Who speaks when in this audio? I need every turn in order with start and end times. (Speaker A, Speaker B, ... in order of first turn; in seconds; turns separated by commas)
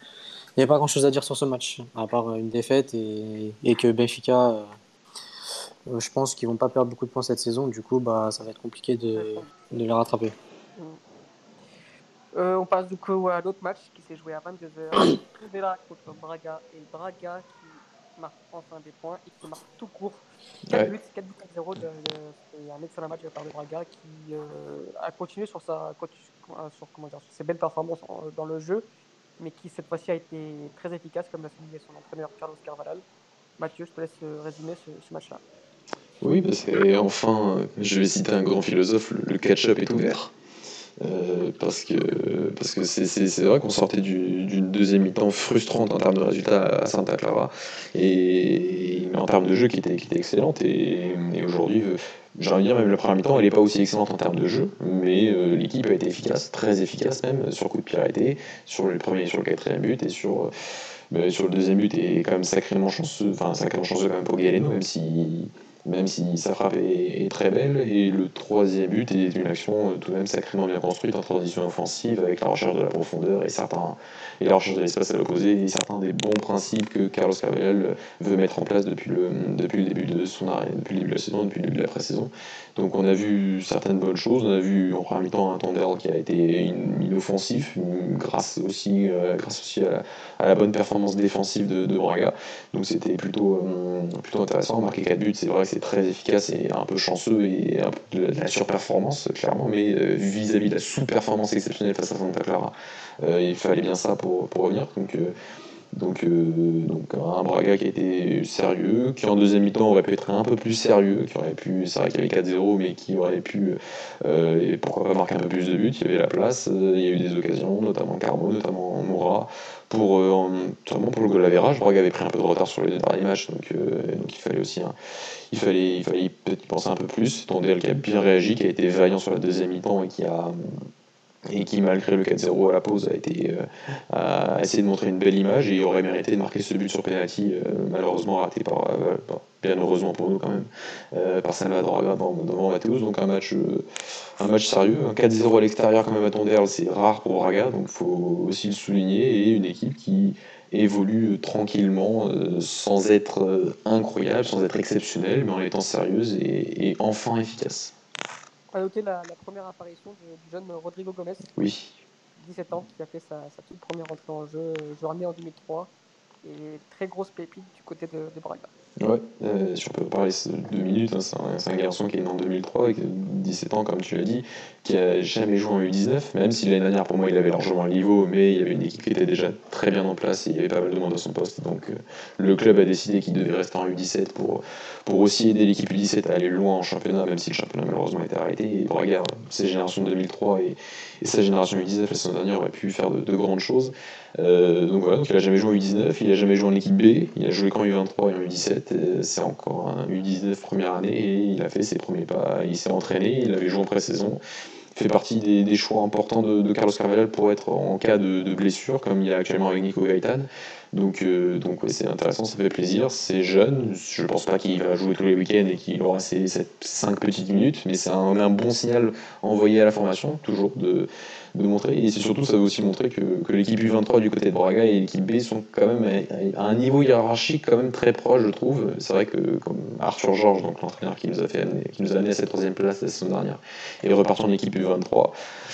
Speaker A: 0.6-4.7, Speaker A: 5.9-10.3, Speaker B: 9.1-9.5, Speaker B: 12.3-28.8, Speaker C: 20.7-20.9, Speaker B: 29.4-33.0, Speaker B: 33.6-35.4, Speaker C: 36.2-40.3, Speaker C: 41.0-60.5, Speaker C: 61.1-105.3, Speaker C: 105.9-124.9, Speaker C: 125.5-130.8, Speaker C: 131.5-143.8, Speaker C: 144.4-157.9, Speaker B: 158.7-161.5, Speaker C: 161.6-162.0, Speaker B: 162.4-165.9, Speaker B: 166.4-168.7, Speaker C: 169.0-204.4, Speaker C: 204.9-235.3